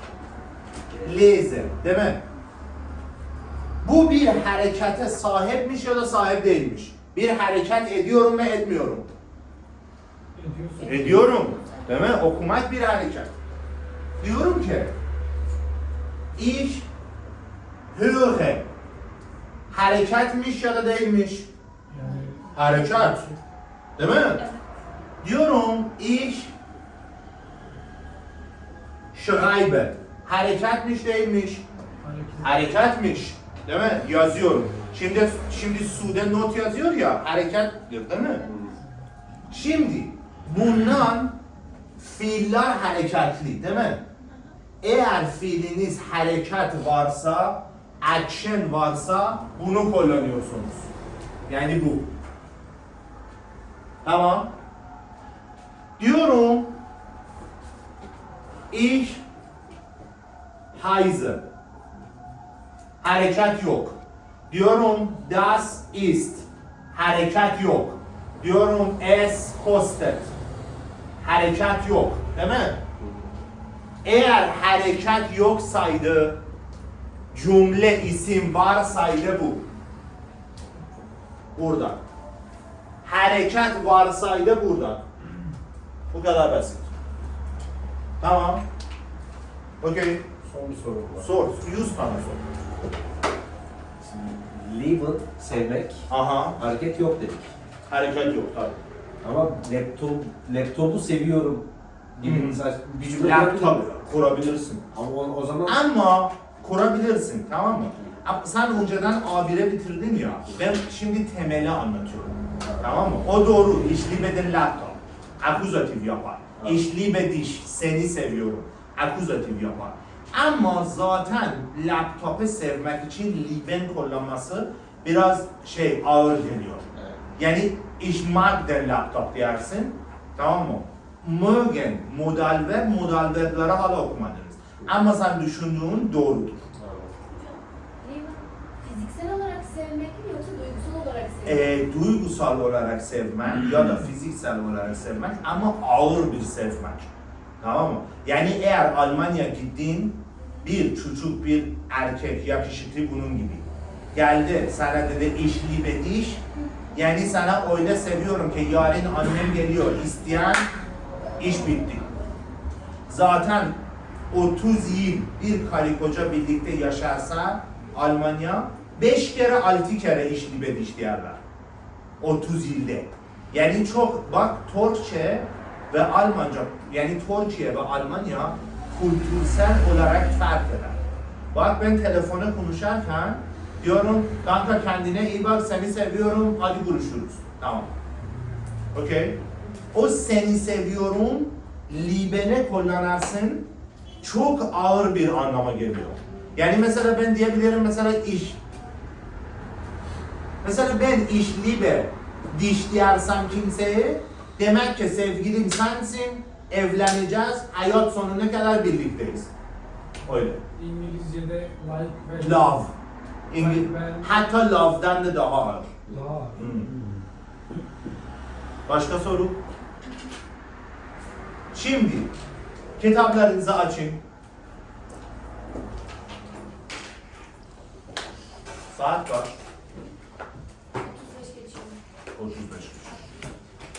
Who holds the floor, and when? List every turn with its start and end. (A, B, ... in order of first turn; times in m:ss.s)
0:01.0-0:02.2 A
0:03.8-0:09.1 A
0:10.3-0:11.4 B
0:10.8-0:13.3 A
0:10.9-0:11.9 C
0:14.2-0:14.9 A
0:16.4-0:16.9 A
0:17.9-0:18.6 A
0:19.7-0:21.5 A
0:21.9-0:23.4 B
0:22.5-0:23.2 A
0:24.0-0:24.4 A
0:25.2-0:26.5 A
0:29.1-0:31.6 A
0:32.0-0:32.7 B
0:32.4-0:38.4 A
0:38.4-0:38.8 D
0:39.5-0:41.4 A
0:42.0-0:44.0 A
0:44.8-0:50.9 A
0:51.5-0:52.0 A
0:54.0-0:54.5 A
0:56.0-0:56.7 A
0:58.7-0:59.2 A
1:00.7-1:01.4 A
1:03.0-1:04.0 A
1:04.5-1:10.3 A
1:11.2-1:12.8 A
1:13.0-1:13.3 D
1:14.0-1:16.4 A
1:17.3-1:19.6 A
1:21.6-1:22.0 A
1:23.0-1:25.0 A
1:26.1-1:26.9 A
1:28.2-1:28.6 A
1:29.8-1:30.2 A
1:30.4-1:31.3 D
1:31.2-1:32.4 A
1:34.0-1:37.5 D
1:36.1-1:36.6 A
1:37.9-1:38.8 A
1:39.2-1:43.8 D
1:42.2-1:44.9 A
1:44.9-1:45.8 D
1:45.6-2:06.8 A
1:52.6-1:53.0 D
2:06.9-2:07.2 D
2:07.4-2:16.6 A
2:16.8-2:17.1 D
2:17.3-2:21.6 C
2:21.4-2:36.4 A
2:36.9-2:40.7 A
2:41.4-2:42.0 A
2:43.1-2:43.8 A
2:44.3-2:51.4 A
2:52.2-3:01.0 A
3:01.5-3:07.9 A
3:08.9-3:09.4 A
3:09.9-3:13.7 A
3:14.2-3:18.6 A
3:20.6-3:29.5 A
3:30.2-3:30.6 A
3:30.7-3:32.9 B
3:32.4-3:32.9 A
3:33.5-3:35.9 A
3:33.5-3:34.3 B
3:36.1-3:37.1 B
3:36.6-3:36.9 A
3:38.9-3:39.6 A
3:41.7-3:42.3 A
3:43.0-3:44.2 A
3:48.9-3:49.5 A
3:51.0-3:52.0 C
3:52.3-3:53.1 A